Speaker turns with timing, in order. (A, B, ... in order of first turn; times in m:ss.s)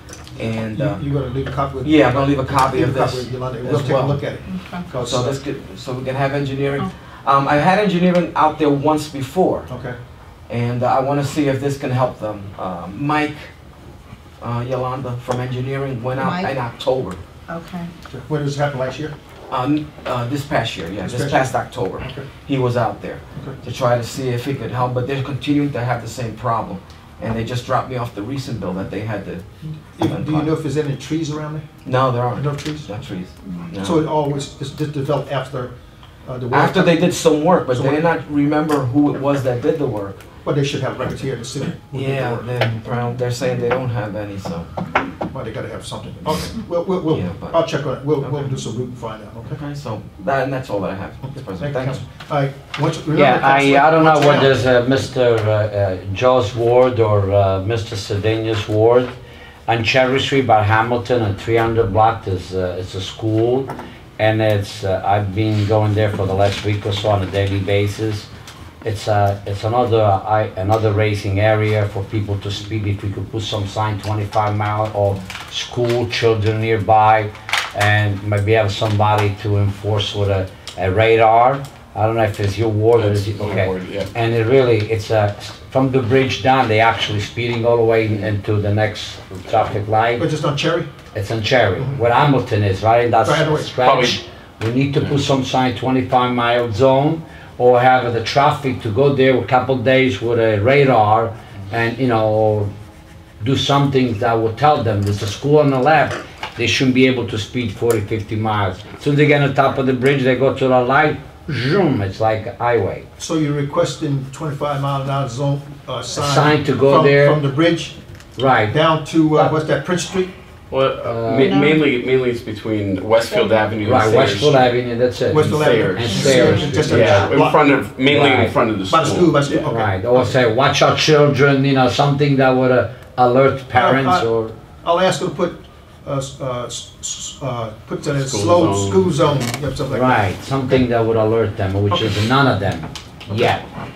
0:00.4-0:01.0 A
0:00.7-0:05.4 B
0:01.8-0:04.2 A
0:04.5-0:04.9 C
0:05.0-0:09.7 A
0:09.7-0:10.0 B
0:10.5-0:13.5 A
0:14.4-0:17.2 A
0:16.2-0:16.6 C
0:17.5-0:17.9 C
0:18.1-0:19.1 B
0:19.5-0:29.4 A
0:21.0-0:21.4 B
0:22.0-0:22.2 B
0:29.6-0:31.6 B
0:30.0-0:30.5 A
0:31.8-0:34.1 A
0:32.3-0:32.9 B
0:33.8-0:35.7 B
0:36.2-0:37.1 B
0:36.5-0:40.2 A
0:37.7-0:38.1 B
0:40.4-0:42.5 B
0:41.9-0:44.7 A
0:45.3-0:49.6 B
0:47.1-0:47.6 A
0:48.2-0:48.5 A
0:49.4-0:52.0 A
0:51.2-0:54.6 B
0:53.1-0:59.1 D
0:59.7-1:08.3 D
1:08.8-1:30.2 D
1:22.9-1:24.1 E
1:30.2-1:30.9 B
1:31.1-1:42.7 D
1:33.2-1:33.7 B
1:33.7-1:34.2 E
1:43.4-1:53.0 D
1:53.2-1:58.0 B
1:56.2-1:57.4 D
1:58.4-1:58.8 D
1:58.7-2:00.3 B
2:00.7-2:04.7 E
2:01.0-2:01.5 D
2:01.3-2:01.9 C
2:03.2-2:03.8 C
2:03.8-2:07.4 D
2:05.3-2:07.7 B
2:05.4-2:09.7 E
2:06.0-2:06.9 C
2:08.0-2:08.6 D
2:08.9-2:10.4 B
2:09.6-2:14.6 D
2:13.7-2:14.3 B
2:14.8-2:20.8 B
2:18.1-2:19.2 E
2:19.9-2:23.6 D
2:21.9-2:22.2 B